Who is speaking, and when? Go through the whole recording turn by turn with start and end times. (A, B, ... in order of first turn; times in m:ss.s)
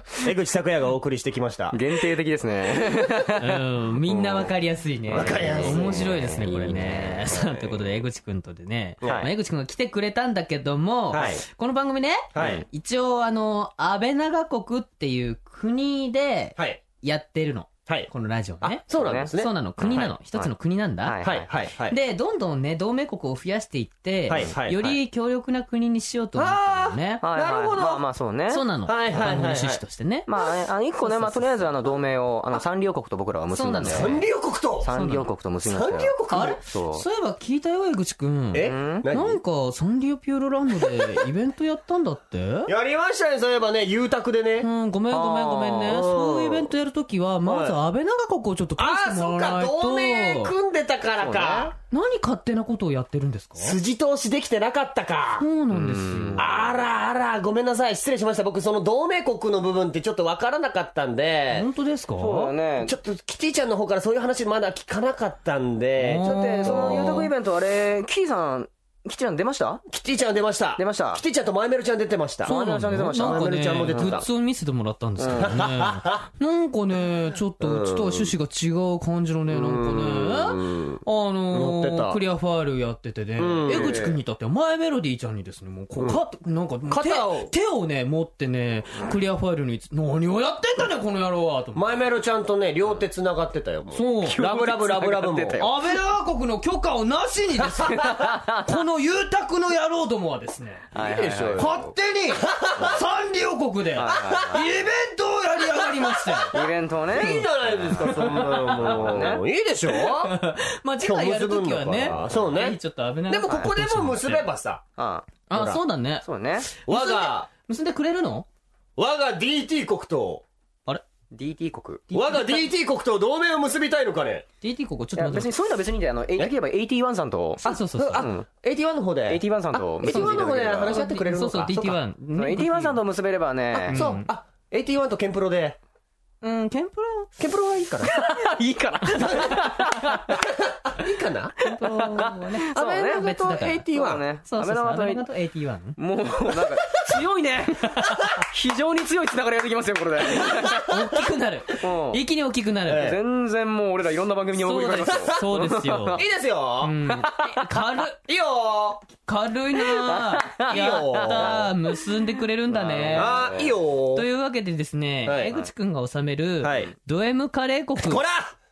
0:00.2-0:01.8 A
0:01.7-0:04.5 B
0:03.4-0:21.3 C
0:05.1-0:06.3 A
0:05.1-0:07.3 B
0:07.3-0:07.9 A
0:09.0-0:09.3 A
0:11.1-0:11.4 A
0:12.3-0:12.6 A
0:12.4-0:12.6 B
0:16.6-0:16.8 A
0:17.9-0:20.0 A
0:18.9-0:20.5 B
0:21.0-0:21.5 B
0:21.2-0:22.0 A
0:21.9-0:27.3 C
0:24.3-0:24.9 A
0:24.3-0:25.0 B
0:26.4-0:28.0 A
0:27.2-0:28.6 B
0:28.5-0:30.3 C
0:28.9-0:29.8 A
0:30.3-0:34.2 B
0:31.0-0:31.7 C
0:33.5-0:34.2 C
0:33.8-0:34.9 A
0:34.8-0:36.1 B
0:34.9-0:35.3 C
0:35.6-0:36.6 A
0:36.3-0:42.7 C
0:36.7-0:37.0 B
0:38.5-0:39.4 A
0:38.6-0:39.0 B
0:42.7-0:44.7 A
0:44.6-0:50.5 C
0:45.1-0:46.0 B
0:45.9-0:46.7 A
0:47.4-0:47.8 A
0:48.8-0:51.7 A
0:51.2-0:51.7 B
0:51.9-0:53.8 C
0:53.6-0:55.4 A
0:55.4-0:56.6 C
0:55.7-0:56.5 B
0:56.4-1:01.7 A
1:01.5-1:02.5 C
1:02.2-1:03.0 B
1:02.8-1:07.3 A
1:06.0-1:07.3 C
1:06.2-1:09.8 B
1:09.9-1:14.3 A
1:10.8-1:11.2 B
1:12.4-1:14.2 B
1:12.4-1:31.9 C
1:15.2-1:15.5 B
1:15.4-1:16.3 A
1:17.6-1:18.3 A
1:19.5-1:22.2 A
1:23.4-1:24.1 A
1:23.7-1:24.1 B
1:26.9-1:27.5 A
1:31.7-1:35.7 A
1:33.9-1:34.5 C
1:34.2-1:35.7 B
1:35.6-1:40.9 C
1:37.9-1:38.8 B
1:40.9-1:41.8 B
1:40.9-1:43.0 A
1:41.6-1:46.5 C
1:44.0-1:44.6 B
1:44.0-1:44.7 A
1:45.6-1:50.4 A
1:46.5-1:49.4 B
1:47.2-1:54.5 C
1:51.0-1:54.8 A
1:55.0-1:55.3 B
1:55.5-1:58.4 C
1:55.5-1:55.8 A
1:56.2-1:56.7 B
1:56.9-1:57.5 A
1:59.0-2:00.4 A
2:01.3-2:02.1 B
2:02.1-2:02.6 C
2:02.1-2:04.5 A
2:04.6-2:05.5 C
2:05.2-2:07.6 B
2:07.6-2:08.3 C
2:07.6-2:12.0 A
2:08.2-2:08.4 B
2:09.3-2:11.0 B
2:10.0-2:13.0 C
2:12.4-2:14.0 B
2:13.7-2:15.8 A
2:13.9-2:14.3 C
2:16.4-2:17.3 C
2:17.4-2:18.2 A
2:18.1-2:20.4 B
2:19.1-2:20.3 C
2:20.7-2:21.6 A
2:21.6-2:23.8 C
2:21.8-2:23.3 B
2:22.7-2:24.2 A
2:23.9-2:25.2 B
2:24.4-2:26.0 C
2:26.0-2:30.8 B
2:27.8-2:28.3 C
2:30.4-2:33.2 C
2:30.4-2:31.0 A
2:31.8-2:32.2 B
2:32.9-2:33.2 A
2:33.0-2:36.2 B
2:34.6-2:36.2 C
2:36.1-2:37.0 A
2:36.8-2:38.2 C
2:37.2-2:37.6 B
2:38.0-2:39.1 A
2:39.1-2:43.4 C
2:39.8-2:41.7 B
2:40.6-2:41.7 A
2:42.7-2:43.7 B
2:43.1-2:44.3 A
2:44.1-2:48.2 C
2:45.2-2:45.6 A
2:46.6-2:46.9 A
2:48.0-2:48.6 A